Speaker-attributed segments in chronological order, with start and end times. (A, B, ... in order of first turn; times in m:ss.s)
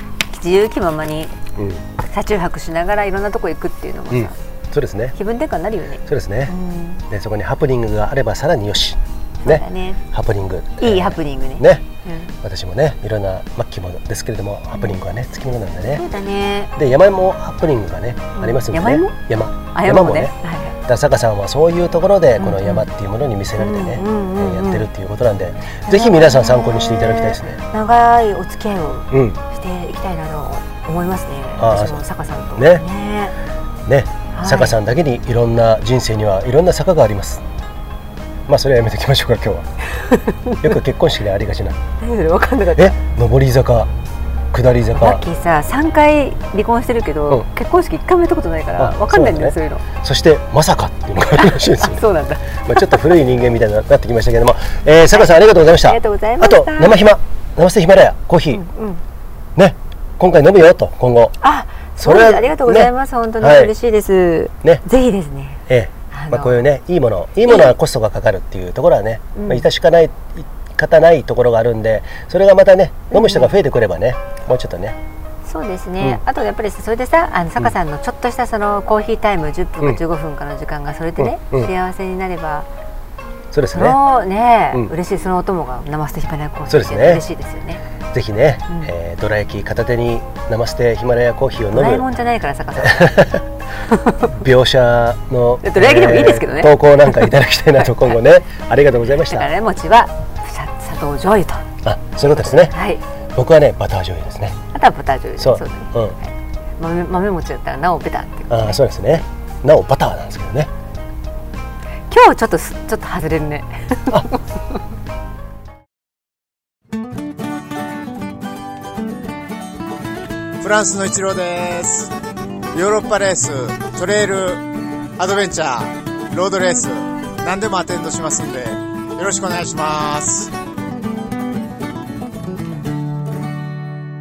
0:00.3-0:01.3 A
0:02.0-0:04.3 A
0:04.1-0:05.2 B
0:05.2-0:07.0 A
0:06.1-0:06.5 B
0:07.1-0:11.8 B
0:09.4-0:10.0 A
0:10.8-0:12.3 A
0:12.4-0:16.0 B
0:15.9-0:16.7 A
0:16.8-0:27.6 B
0:18.4-0:20.8 A
0:22.4-0:22.9 A
0:23.6-0:24.9 A
0:25.9-0:33.3 A
0:29.1-0:29.4 B
0:31.6-0:32.0 B
0:32.6-0:32.8 B
0:33.8-0:37.4 B
0:34.3-0:34.7 A
0:38.5-0:39.7 B
0:40.0-0:40.7 A
0:40.6-0:41.8 B
0:42.0-0:43.0 A
0:42.8-0:43.9 B
0:44.5-0:45.2 B
0:44.9-0:49.8 A
0:48.8-0:52.0 B
0:51.4-0:53.0 A
0:52.6-0:58.6 B
0:55.1-0:57.0 A
0:58.5-0:59.0 A
0:59.6-1:01.4 B
1:01.4-1:06.6 A
1:02.0-1:03.7 B
1:05.7-1:15.0 B
1:07.5-1:07.7 A
1:09.3-1:09.6 A
1:13.1-1:13.5 A
1:15.4-1:22.6 A
1:21.2-1:21.7 B
1:23.5-1:24.0 B
1:23.7-1:27.8 A
1:26.7-1:27.2 B
1:28.1-1:32.0 B
1:31.7-1:33.2 A
1:32.8-1:33.4 B
1:33.9-1:34.3 A
1:34.4-1:39.5 B
1:35.6-1:37.3 A
1:39.3-1:41.6 A
1:41.8-1:42.7 B
1:42.4-1:43.0 A
1:43.4-1:44.6 B
1:44.7-1:48.8 A
1:45.4-1:46.1 B
1:48.5-1:50.7 B
1:52.1-1:54.4 A
2:00.6-2:02.1 C
2:02.7-2:10.5 C